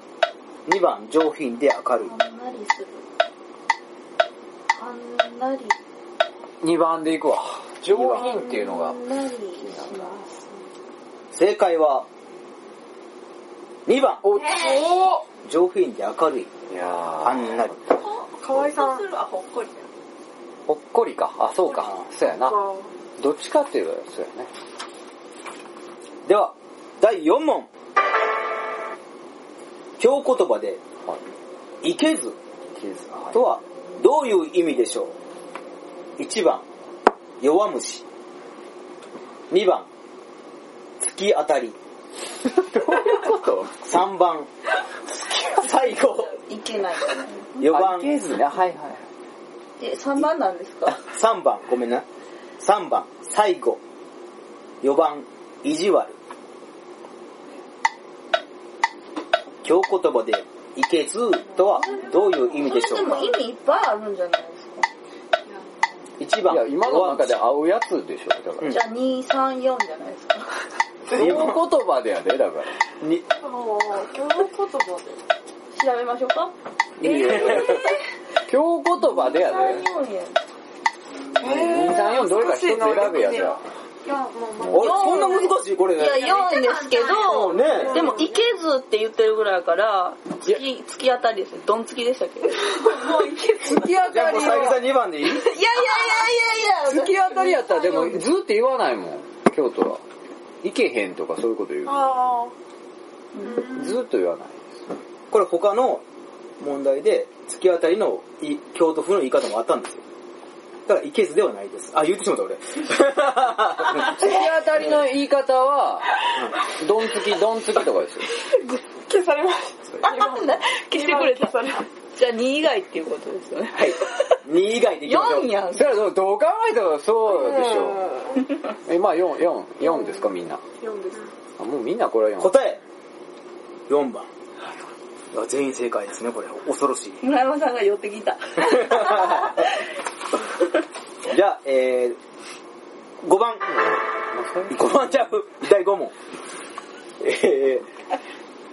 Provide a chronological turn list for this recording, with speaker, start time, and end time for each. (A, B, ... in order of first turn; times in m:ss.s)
0:00.6-0:02.1 A
0:02.0-0:03.0 B
0:04.7-0:05.8 B
0:06.6-0:09.0 C
0:07.9-0:08.2 A
0:08.1-0:10.4 B
0:09.6-0:10.1 C
0:11.3-0:12.1 A
0:13.8-0:14.2 A
0:14.2-0:15.2 C
0:14.3-0:14.8 D
0:14.6-0:15.0 E
0:15.4-0:16.5 A
0:16.7-0:17.8 C
0:17.2-0:17.7 A
0:18.0-0:19.9 D
0:18.4-0:19.0 E
0:20.7-0:22.6 C
0:22.4-0:22.9 E
0:23.2-0:24.5 C
0:26.2-0:27.7 A
0:30.0-0:30.8 A
0:31.8-0:32.4 A
0:32.7-0:33.5 C
0:33.3-0:35.1 A
0:36.2-0:36.6 A
0:37.4-0:38.0 A
0:39.5-0:39.9 A
0:41.0-0:41.8 A
0:42.4-0:43.8 C
0:43.8-0:44.5 A
0:45.1-0:45.6 C
0:45.4-0:46.3 A
0:45.9-0:47.7 B
0:47.6-0:48.1 A
0:47.6-0:49.1 C
0:49.8-0:51.0 B
0:50.9-0:52.0 A
0:52.6-0:53.8 A
0:54.8-0:56.2 A
0:59.6-1:03.3 A
1:01.7-1:02.5 D
1:01.9-1:04.9 B
1:05.4-1:06.1 D
1:06.2-1:07.4 A
1:06.4-1:08.8 C
1:08.6-1:10.5 B
1:11.1-1:12.8 C
1:11.1-1:11.6 A
1:13.4-1:15.2 E
1:15.7-1:18.0 B
1:17.0-1:19.8 C
1:17.2-1:17.6 A
1:19.0-1:20.4 B
1:21.4-1:23.6 E
1:21.4-1:23.6 C
1:22.8-1:23.5 D
1:24.0-1:25.5 D
1:24.6-1:25.0 C
1:24.7-1:26.4 A
1:24.7-1:33.0 B
1:26.1-1:28.2 D
1:27.2-1:28.1 A
1:27.7-1:28.3 E
1:32.7-1:34.3 D
1:33.6-1:34.8 C
1:33.6-1:38.2 B
1:34.1-1:35.5 A
1:36.8-1:40.0 C
1:40.6-1:42.1 C
1:41.8-1:42.5 E
1:43.4-1:43.7 B
1:43.7-1:44.7 C
1:45.3-1:46.0 A
1:46.6-1:50.0 A
1:50.9-1:54.3 A
1:54.0-1:58.3 C
1:58.4-2:01.8 E
2:00.0-2:04.4 B
2:03.7-2:05.5 A
2:05.0-2:05.9 B
2:05.7-2:08.1 C
2:07.2-2:08.4 E
2:08.8-2:10.6 C
2:09.8-2:11.3 E
2:11.6-2:12.5 C
2:12.4-2:12.8 A
2:13.9-2:14.3 A
2:15.3-2:17.2 A
2:17.2-2:19.7 B
2:18.8-2:19.5 A
2:21.3-2:22.2 A
2:23.2-2:23.6 A
2:23.7-2:25.3 C
2:24.7-2:26.1 A
2:27.2-2:27.9 A